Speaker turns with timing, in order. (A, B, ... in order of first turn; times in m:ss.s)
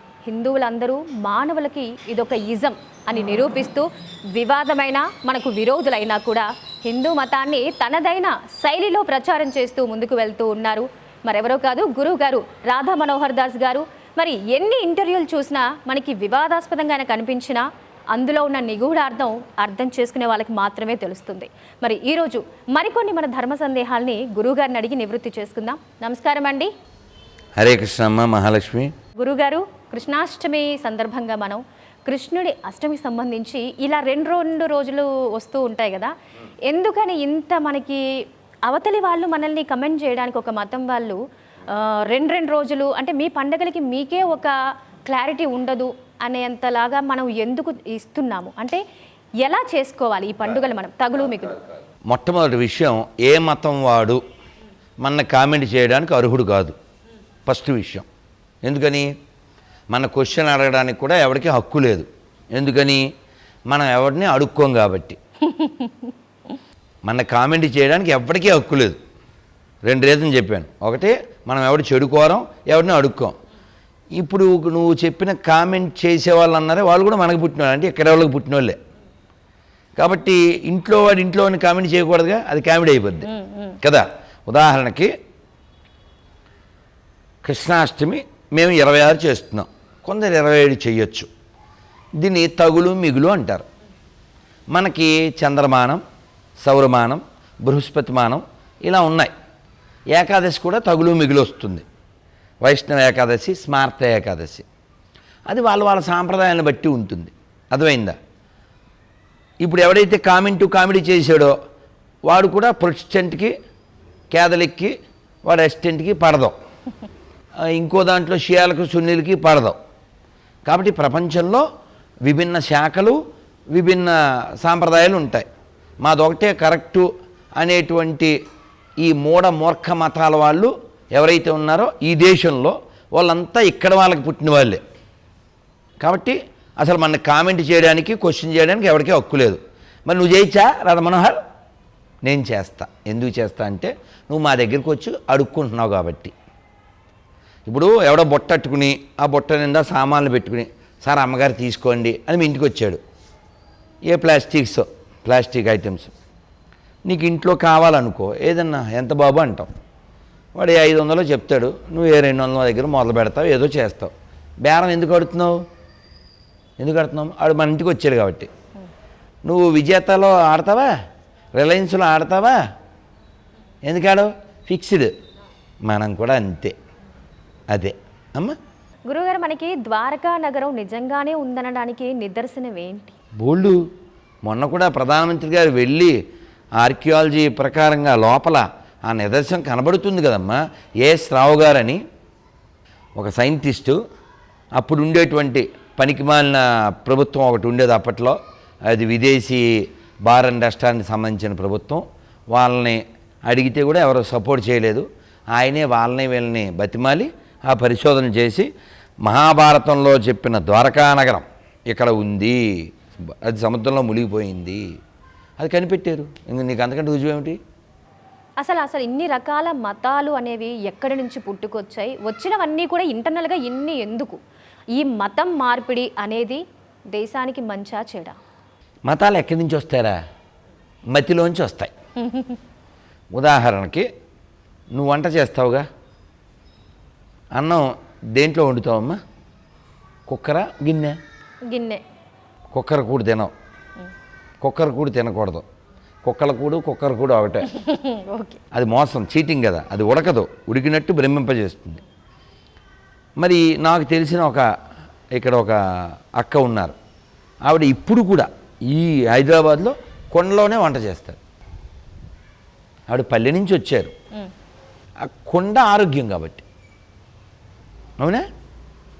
0:00.3-0:26.7 A
0:27.6-0:28.9 B
0:29.2-0:36.1 A
0:36.7-0:38.0 A
0:38.7-0:44.5 A
0:45.1-0:48.8 A
0:49.4-0:51.6 A
0:52.1-0:54.2 B
0:55.0-0:56.8 B
0:57.5-0:58.1 B
0:58.6-0:59.1 B
0:59.9-1:03.0 B
1:03.7-1:05.2 B
1:05.5-1:06.1 A
1:07.0-1:09.0 B
1:09.8-1:13.4 B
1:14.2-1:18.8 B
1:20.0-1:23.3 B
1:23.3-1:23.8 A
1:23.8-1:25.1 B
1:27.4-1:31.3 B
1:32.2-1:33.6 B
1:34.7-1:36.0 B
1:36.6-1:39.3 B
1:40.1-1:41.8 B
1:42.6-1:44.7 B
1:45.5-1:48.2 B
1:49.6-1:51.6 B
1:52.2-1:53.5 B
1:54.3-1:54.9 B
1:55.4-1:56.6 B
1:57.6-1:59.8 B
2:00.7-2:01.7 B
2:02.2-2:03.2 B
2:03.7-2:05.5 B
2:06.0-2:07.1 B
2:07.6-2:08.4 B
2:09.0-2:14.8 B
2:16.0-2:21.4 B
2:22.2-2:26.3 B
2:27.7-2:33.0 B
2:34.1-2:36.1 B
2:37.1-2:39.7 B
2:40.6-2:45.6 B
2:46.8-2:48.5 B
2:49.5-2:50.9 B
2:51.5-2:52.6 B
2:53.9-2:55.1 B
2:55.9-2:56.8 B
2:57.7-2:58.6 B
2:59.1-3:03.2 A
3:03.4-3:03.9 B
3:04.4-3:06.2 B
3:06.8-3:12.0 B
3:13.2-3:14.0 B
3:14.8-3:28.7 B
3:29.2-3:32.6 B
3:33.2-3:34.8 B
3:35.6-3:37.6 B
3:38.6-3:44.4 A
3:44.9-3:48.4 A
3:49.1-3:50.2 B
3:51.1-3:51.9 B
3:52.2-3:52.6 A
3:53.3-3:54.1 B
3:54.9-3:55.9 B
3:57.6-3:59.2 B
4:00.3-4:01.2 B
4:01.7-4:02.0 A
4:02.7-4:03.5 B
4:04.6-4:05.6 B
4:06.2-4:07.7 B
4:07.7-4:08.6 A
4:08.7-4:12.0 B
4:13.4-4:14.7 B
4:15.3-4:17.0 B
4:17.6-4:21.4 B
4:23.1-4:24.1 B
4:25.2-4:26.6 B
4:28.2-4:28.4 B